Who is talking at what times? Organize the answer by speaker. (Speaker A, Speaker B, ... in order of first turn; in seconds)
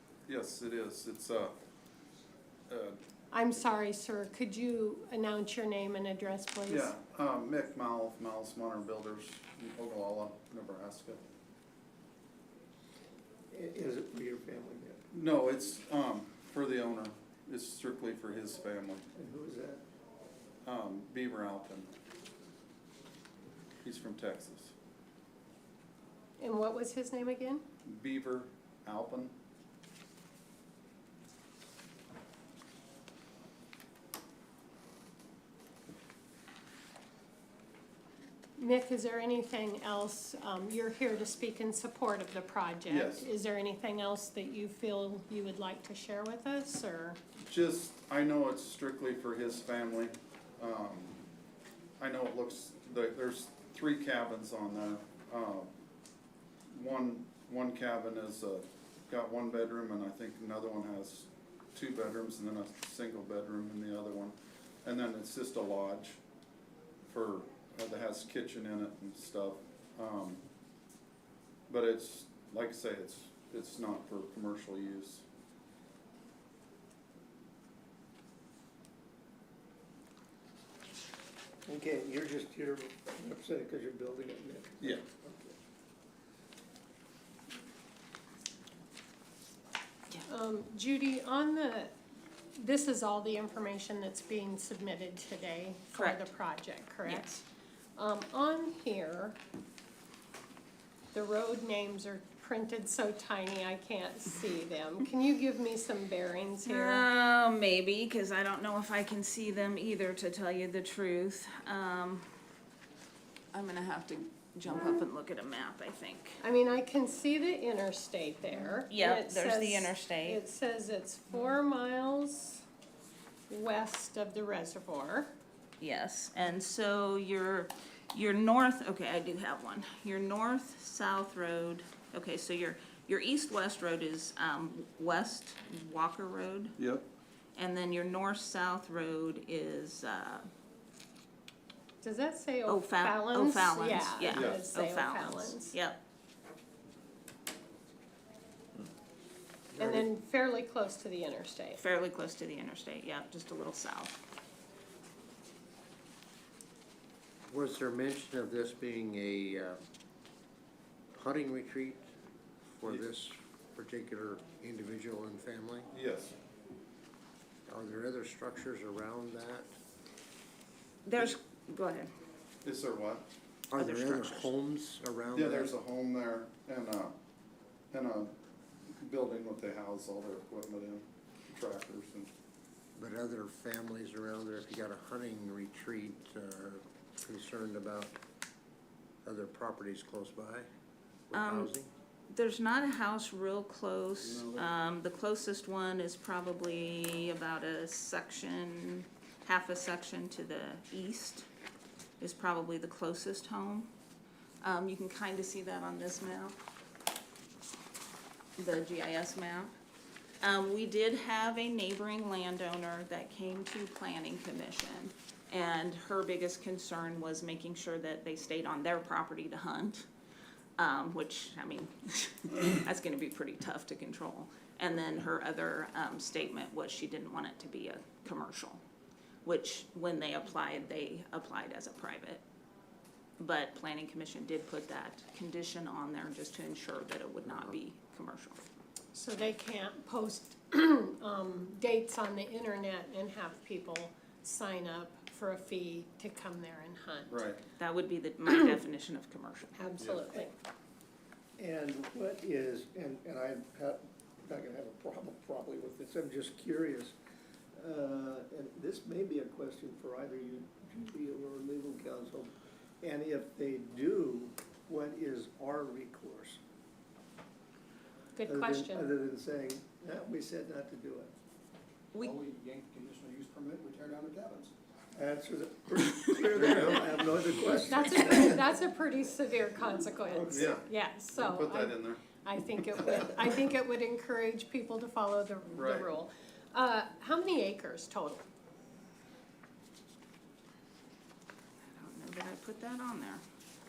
Speaker A: 0.3-1.6, 2.7-3.0, 6.7-11.2, 15.1-19.0, 20.6-21.9, 23.8-24.7, 27.8-29.3, 42.9-43.3, 47.4-51.2, 52.0-55.7, 56.7-66.2, 67.0-70.4, 71.7-75.2, 136.8-137.0, 144.3-144.6, 165.9-166.3, 172.6-173.3, 175.3-177.2, 177.9-178.3, 178.9-182.3, 194.2-194.7, 247.3-247.6, 250.0-250.2, 276.5-277.0, 280.5-282.2, 285.7-286.1
Speaker B: 3.3-6.9, 26.4-27.6, 38.6-47.2, 90.3-91.9, 92.6-97.4, 98.0-99.4, 101.1-107.1, 116.4-122.6, 123.5-125.3, 142.0-145.8, 149.8-151.8, 239.1-247.4, 249.7-250.5, 268.3-269.1, 277.9-288.4
Speaker C: 13.5-15.0, 19.1-19.8, 81.7-85.6, 251.6-257.1, 257.8-266.6, 268.4-271.3, 275.1-278.6, 280.2-280.7
Speaker D: 95.9-96.3, 106.6-112.3, 113.5-116.4, 118.9-120.4, 125.8-136.8, 137.5-140.5, 142.7-146.0, 151.7-154.2, 171.0-172.1, 173.8-174.5, 191.3-191.7, 192.3-201.4, 202.2-203.9, 204.6-206.5, 208.6-209.7, 210.4-220.1, 220.8-228.8, 229.4-232.4, 233.4-238.6, 247.8-249.7, 272.1-272.4, 291.8-293.4
Speaker E: 157.5-159.8, 161.1-162.0, 162.7-165.9, 167.7-169.7, 173.7-175.7, 182.9-188.2, 189.2-190.7, 191.3-191.9
Speaker F: 272.3-274.7